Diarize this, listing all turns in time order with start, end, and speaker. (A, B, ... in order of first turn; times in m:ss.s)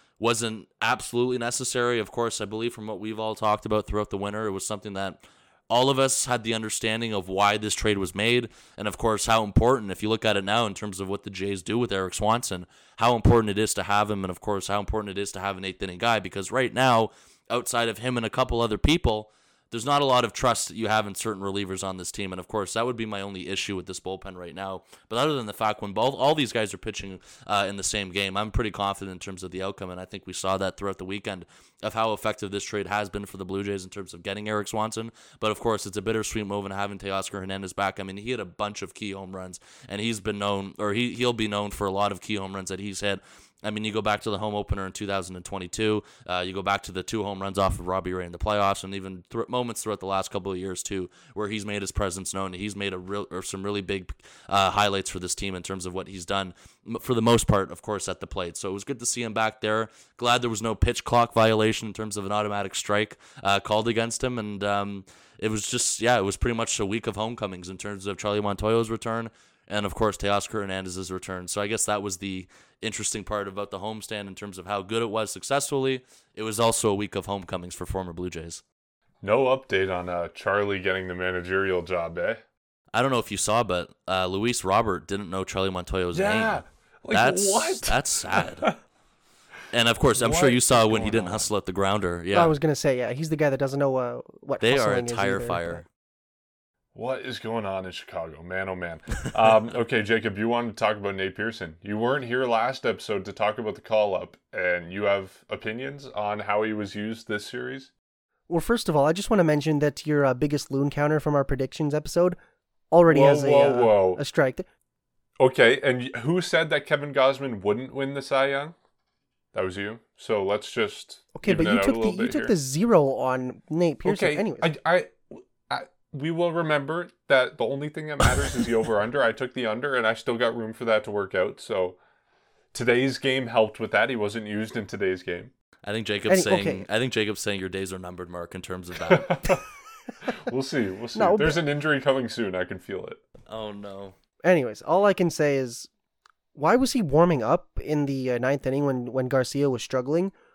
0:00.2-1:18.6 A
1:19.2-1:22.4 B
1:22.9-1:28.8 A
1:26.1-1:28.7 B
1:29.7-1:32.5 A
1:30.1-1:31.5 B
1:32.3-1:35.8 C
1:34.6-1:35.8 A
1:36.9-1:47.9 B
1:48.5-1:52.4 C
1:52.9-1:54.7 C
1:53.1-1:54.2 B
1:55.4-1:58.7 B
1:59.5-2:02.5 B
2:01.4-2:04.7 C
2:04.0-2:12.0 B
2:12.7-2:15.5 B
2:15.9-2:19.5 A
2:16.3-2:16.8 C
2:19.1-2:19.6 B
2:20.2-2:23.2 B
2:21.1-2:21.6 C
2:23.5-2:24.1 A
2:24.4-2:25.9 C
2:26.6-2:30.3 C